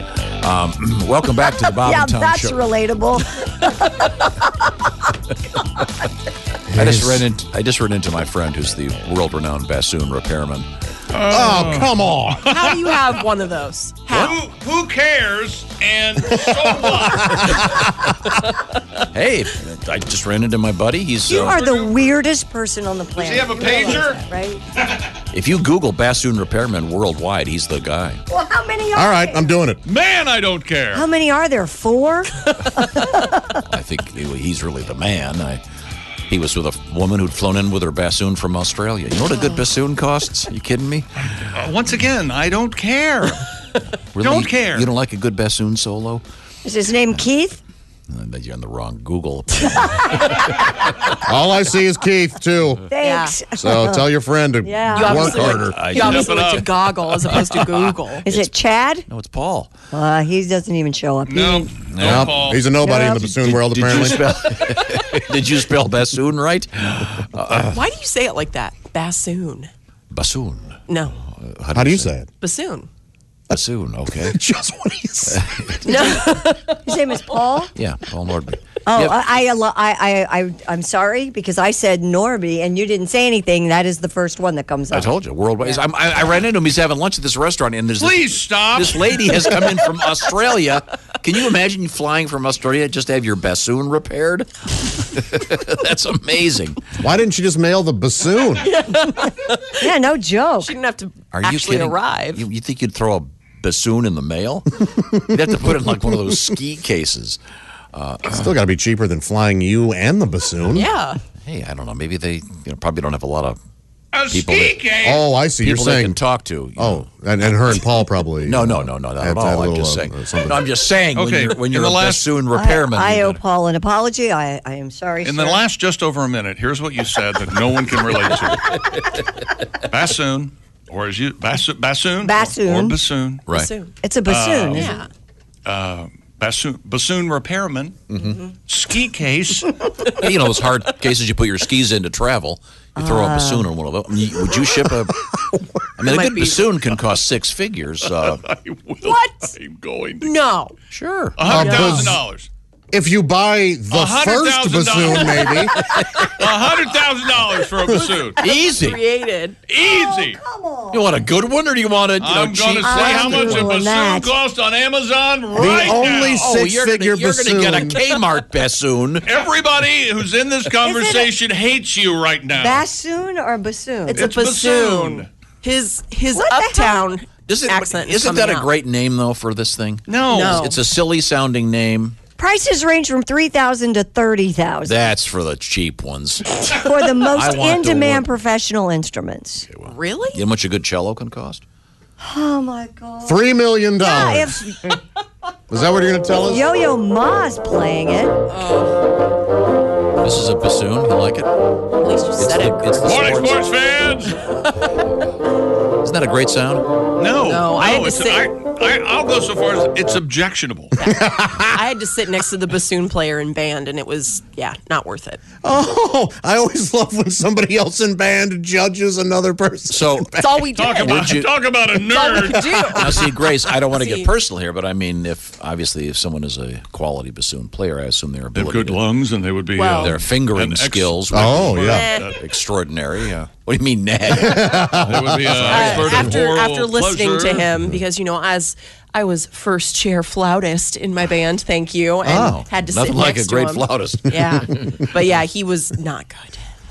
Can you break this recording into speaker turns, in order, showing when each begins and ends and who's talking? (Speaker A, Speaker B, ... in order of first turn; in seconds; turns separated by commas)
Speaker A: 0.4-2.7, Speaker B: 1.7-4.7, Speaker C: 6.7-7.3, Speaker A: 6.7-10.7, Speaker D: 11.1-11.9, Speaker C: 11.3-12.5, Speaker E: 12.4-14.4, Speaker D: 12.4-12.9, Speaker D: 14.1-17.8, Speaker A: 19.1-21.6, Speaker B: 21.3-24.6, Speaker D: 21.4-22.1, Speaker D: 23.2-24.2, Speaker A: 25.3-28.2, Speaker B: 28.3-29.5, Speaker C: 28.9-29.8, Speaker D: 29.8-31.1, Speaker B: 30.9-33.4, Speaker A: 33.7-35.6, Speaker A: 36.3-41.6, Speaker D: 41.5-43.5, Speaker A: 44.1-46.2, Speaker D: 44.2-44.9, Speaker B: 46.6-47.6, Speaker A: 48.1-50.4, Speaker C: 51.2-52.9, Speaker B: 52.9-54.1, Speaker E: 53.0-53.4, Speaker C: 53.5-55.8, Speaker B: 54.6-55.5, Speaker E: 54.9-58.3, Speaker D: 55.7-56.7, Speaker A: 55.8-56.6, Speaker A: 57.3-58.5, Speaker B: 58.2-59.1, Speaker A: 59.1-59.7, Speaker B: 59.9-61.7, Speaker D: 61.2-62.7, Speaker A: 61.9-62.4, Speaker C: 62.0-64.4, Speaker B: 62.8-63.3, Speaker A: 63.3-67.8, Speaker E: 67.5-69.7, Speaker A: 70.1-72.1, Speaker E: 70.9-71.2, Speaker C: 71.7-72.3, Speaker E: 72.4-72.9, Speaker A: 73.5-74.4, Speaker C: 74.2-75.4, Speaker A: 75.2-76.1, Speaker E: 75.8-77.0, Speaker B: 76.8-77.7, Speaker A: 77.8-79.2, Speaker B: 78.9-85.1, Speaker A: 84.9-96.8, Speaker D: 88.0-89.2, Speaker C: 97.0-98.7, Speaker E: 98.6-99.9, Speaker B: 99.8-100.8, Speaker E: 100.6-102.5, Speaker A: 101.3-107.4, Speaker A: 107.9-108.5, Speaker C: 108.3-110.9, Speaker E: 110.7-111.2, Speaker A: 111.4-113.6, Speaker D: 114.1-115.3, Speaker A: 114.3-114.9, Speaker C: 115.0-116.2, Speaker A: 115.6-117.8, Speaker C: 116.8-120.6, Speaker A: 118.4-123.4, Speaker D: 121.2-122.3, Speaker B: 122.5-125.6, Speaker D: 125.2-128.9, Speaker A: 128.4-129.0, Speaker D: 129.9-133.5, Speaker B: 132.2-133.0, Speaker A: 133.5-133.7, Speaker E: 133.5-133.9, Speaker B: 134.0-135.0, Speaker D: 134.2-135.0, Speaker E: 134.7-135.1, Speaker D: 135.6-138.1, Speaker A: 138.1-138.4, Speaker D: 138.7-139.7, Speaker A: 140.1-145.3, Speaker B: 142.9-143.7, Speaker A: 146.0-148.4, Speaker E: 146.0-146.9, Speaker D: 148.1-150.3, Speaker E: 149.0-149.5, Speaker E: 150.2-150.7, Speaker A: 150.9-151.5, Speaker D: 151.4-152.5, Speaker C: 151.5-152.2, Speaker E: 151.5-152.1, Speaker C: 152.9-155.7, Speaker D: 153.9-155.6, Speaker E: 155.3-156.4, Speaker D: 156.1-158.4, Speaker E: 158.1-159.6, Speaker A: 158.4-159.0, Speaker D: 159.7-160.4, Speaker B: 159.8-161.0, Speaker A: 160.9-163.5, Speaker D: 162.2-166.6, Speaker B: 162.8-164.3, Speaker C: 165.5-168.0, Speaker A: 166.4-169.3, Speaker D: 169.2-172.8, Speaker B: 170.8-171.3, Speaker B: 172.5-174.3, Speaker E: 174.1-178.7, Speaker D: 174.1-175.3, Speaker B: 176.3-177.2, Speaker A: 177.4-182.2, Speaker D: 180.1-180.7, Speaker E: 180.2-180.8, Speaker B: 182.4-185.1, Speaker A: 184.8-186.7, Speaker B: 186.6-189.7, Speaker A: 187.2-188.3, Speaker A: 189.7-191.6, Speaker E: 189.8-190.4, Speaker B: 192.2-193.4, Speaker C: 193.2-194.6, Speaker B: 194.0-194.9, Speaker C: 195.7-196.7, Speaker B: 196.4-198.4, Speaker E: 198.5-199.0, Speaker A: 200.2-201.5, Speaker E: 202.0-203.6, Speaker A: 202.4-203.6, Speaker D: 203.0-204.4, Speaker A: 206.0-206.9, Speaker D: 207.2-210.9, Speaker E: 207.4-208.6, Speaker E: 211.0-215.4, Speaker C: 211.0-211.8, Speaker C: 215.6-220.3, Speaker A: 219.9-221.5, Speaker E: 220.3-221.3, Speaker D: 220.7-223.0, Speaker E: 222.0-224.3, Speaker A: 222.9-229.0, Speaker D: 228.5-232.4, Speaker E: 229.8-230.1, Speaker A: 230.0-231.8, Speaker C: 231.3-232.1, Speaker E: 231.8-232.4, Speaker A: 232.3-235.0, Speaker C: 234.3-235.6, Speaker D: 235.0-237.7, Speaker E: 235.6-246.7, Speaker A: 235.7-236.0, Speaker C: 242.2-242.6, Speaker A: 242.3-244.7